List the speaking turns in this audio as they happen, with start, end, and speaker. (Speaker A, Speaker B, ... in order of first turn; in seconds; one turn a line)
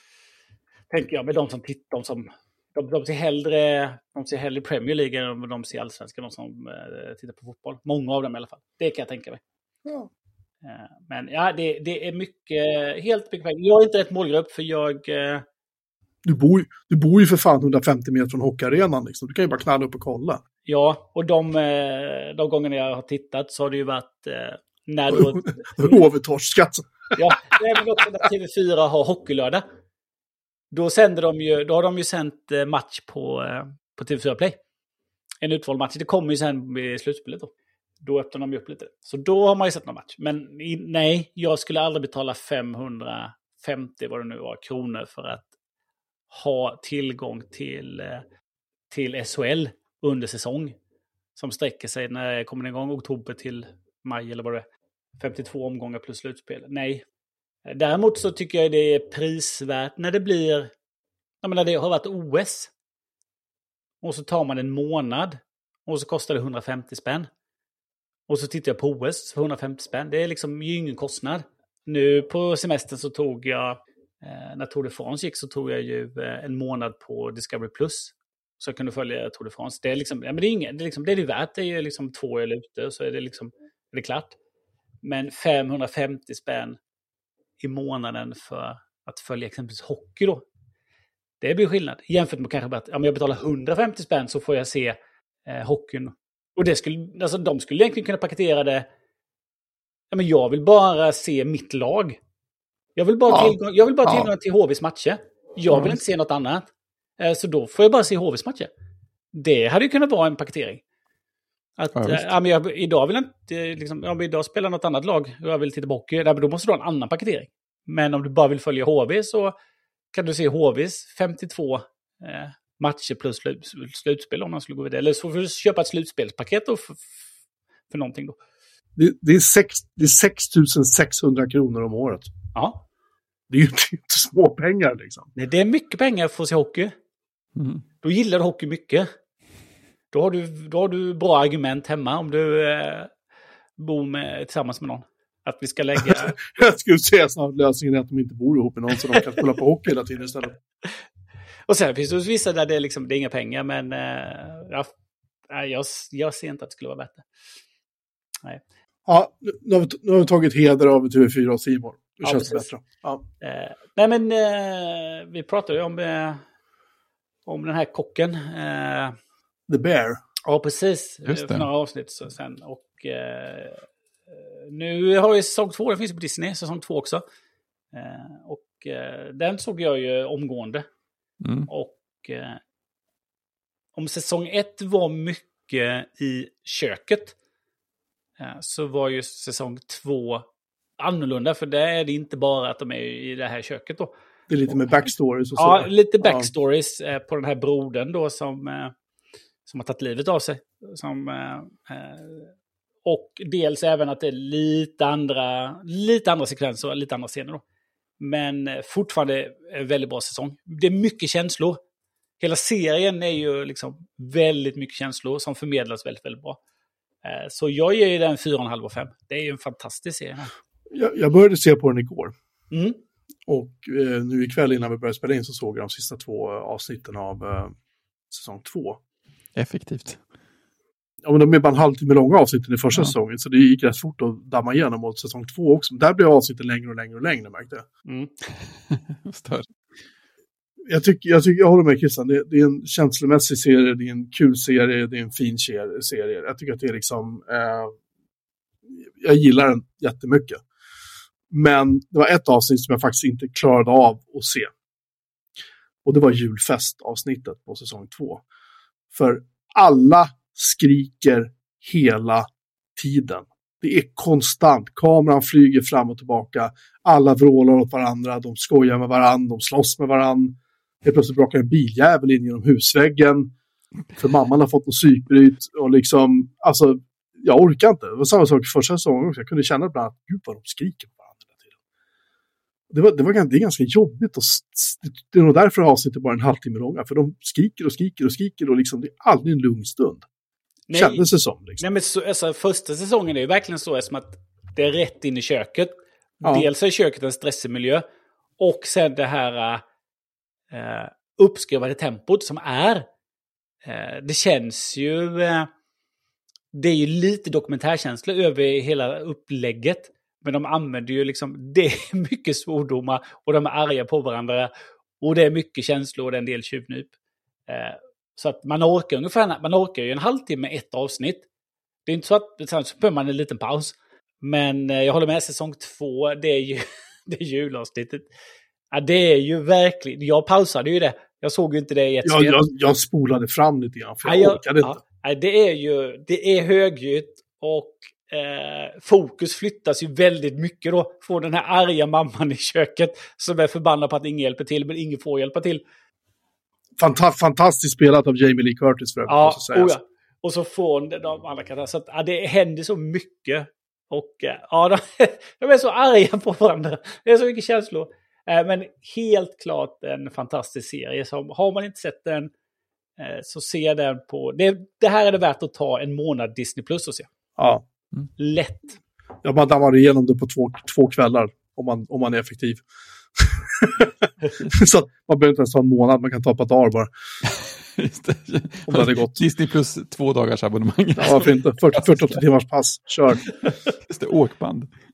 Speaker A: 0.9-9.4
Speaker B: 9.8-10.1
Speaker A: 10.6-15.4
Speaker B: 16.2-20.4
Speaker A: 20.7-26.0
Speaker B: 25.1-27.6
Speaker A: 27.2-29.6
Speaker A: 30.7-34.6
Speaker A: 35.4-37.5
Speaker A: 38.0-45.5
Speaker A: 46.3-48.2
Speaker A: 48.9-50.8
Speaker A: 51.4-54.6
Speaker A: 55.2-57.0
Speaker A: 57.7-60.7
Speaker A: 61.4-62.7
Speaker A: 64.0-67.3
Speaker A: 68.3-84.4
Speaker A: 85.0-86.8
Speaker A: 87.6-90.5
Speaker A: 91.4-98.9
Speaker A: 100.1-102.2
Speaker A: 103.0-106.7
Speaker B: 103.3-103.6
Speaker C: 105.7-106.0
Speaker A: 107.2-108.7
Speaker A: 109.3-110.8
Speaker A: 111.8-119.5
Speaker C: 112.0-112.3
Speaker A: 120.1-127.1
Speaker A: 127.9-128.4
Speaker B: 129.0-132.3
Speaker A: 132.6-132.8
Speaker B: 133.5-135.3
Speaker A: 135.4-136.9
Speaker C: 137.6-137.8
Speaker A: 138.0-139.1
Speaker A: 140.1-143.1
Speaker A: 143.8-146.4
Speaker B: 146.1-150.6
Speaker A: 151.7-154.9
Speaker A: 155.5-157.3
Speaker B: 159.1-163.2
Speaker A: 162.2-162.7
Speaker A: 163.4-166.4
Speaker A: 167.5-169.2
Speaker B: 169.7-170.2
Speaker A: 170.4-177.2
Speaker C: 171.3-171.7
Speaker A: 177.9-180.8
Speaker C: 181.4-181.7
Speaker A: 181.7-182.6
Speaker A: 183.9-187.3
Speaker A: 188.4-190.5
Speaker A: 191.0-194.1
Speaker B: 194.5-196.5
Speaker A: 194.7-194.9
Speaker A: 195.6-198.9
Speaker A: 199.7-202.5
Speaker A: 203.1-207.6
Speaker A: 208.2-211.8
Speaker A: 212.4-216.6
Speaker A: 217.2-220.5
Speaker B: 220.9-222.3
Speaker A: 222.7-223.0
Speaker B: 223.5-227.7
Speaker B: 228.3-229.0
Speaker C: 229.6-230.2
Speaker B: 231.2-237.8
Speaker A: 238.1-238.3
Speaker C: 238.9-239.7
Speaker B: 240.9-247.9
Speaker B: 249.2-250.6
Speaker B: 251.5-254.7
Speaker B: 256.1-258.4
Speaker B: 259.1-273.5
Speaker B: 274.2-281.4
Speaker B: 282.9-290.3
Speaker A: 290.9-291.2
Speaker B: 290.9-291.8
Speaker A: 291.8-298.1
Speaker B: 296.4-296.7
Speaker A: 298.6-299.8
Speaker A: 300.7-303.1
Speaker A: 303.8-305.7
Speaker A: 306.7-317.1
Speaker A: 317.7-321.5
Speaker A: 322.1-328.3
Speaker A: 328.9-332.6
Speaker B: 332.2-335.0
Speaker A: 334.2-345.8
Speaker B: 347.0-349.9
Speaker A: 349.3-362.5
Speaker A: 363.2-367.3
Speaker B: 367.6-367.9
Speaker A: 368.4-369.0
Speaker B: 369.4-372.8
Speaker B: 373.4-377.1
Speaker C: 377.4-382.4
Speaker B: 378.9-379.4
Speaker B: 381.2-383.5
Speaker C: 384.0-384.9